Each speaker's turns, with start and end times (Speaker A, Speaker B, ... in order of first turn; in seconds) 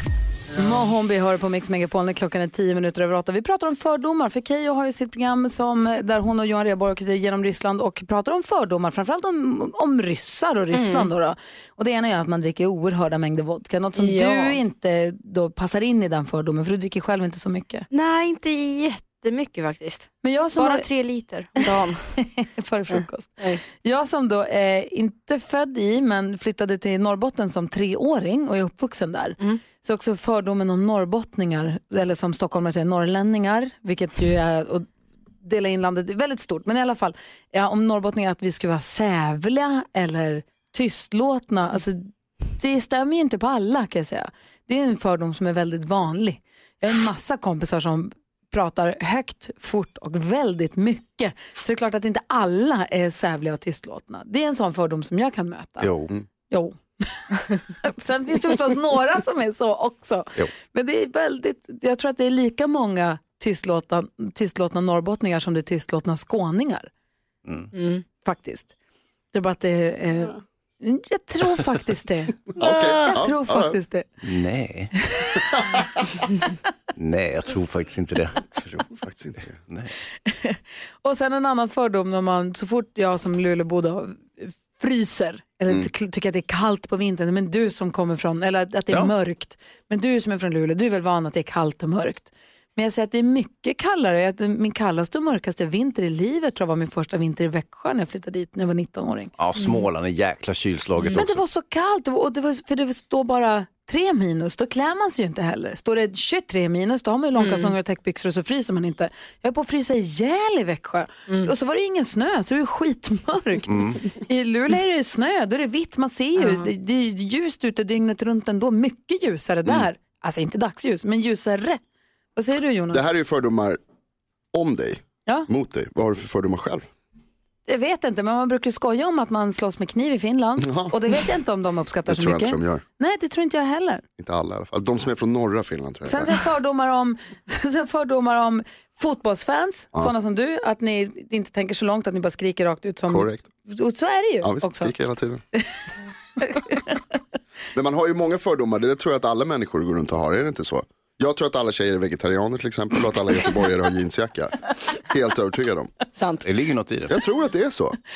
Speaker A: 0.5-17.9, 20.2-20.9, 22.2-34.9, 35.4-42.0, 42.5-55.9, 56.5-66.9, 68.2-68.7, 69.3-74.1, 75.2-75.6, 80.2-99.3, 101.1-121.8, 122.3-123.0, 127.7-134.0, 136.0-144.9, 146.4-146.9
Speaker B: 10.7-11.1, 13.9-14.6, 17.9-22.1, 22.9-23.6, 67.7-68.0, 107.4-107.7, 116.4-116.7, 156.1-156.5
Speaker C: 55.8-56.1, 74.2-74.9, 76.9-78.5, 79.7-79.9, 99.4-101.4, 156.4-157.2
Speaker D: 72.5-73.8, 78.5-79.5, 122.9-123.8, 124.5-126.9, 130.6-131.0, 132.1-132.8, 134.2-136.4, 143.1-143.4, 144.4-145.4, 147.7-155.9, 157.1-158.0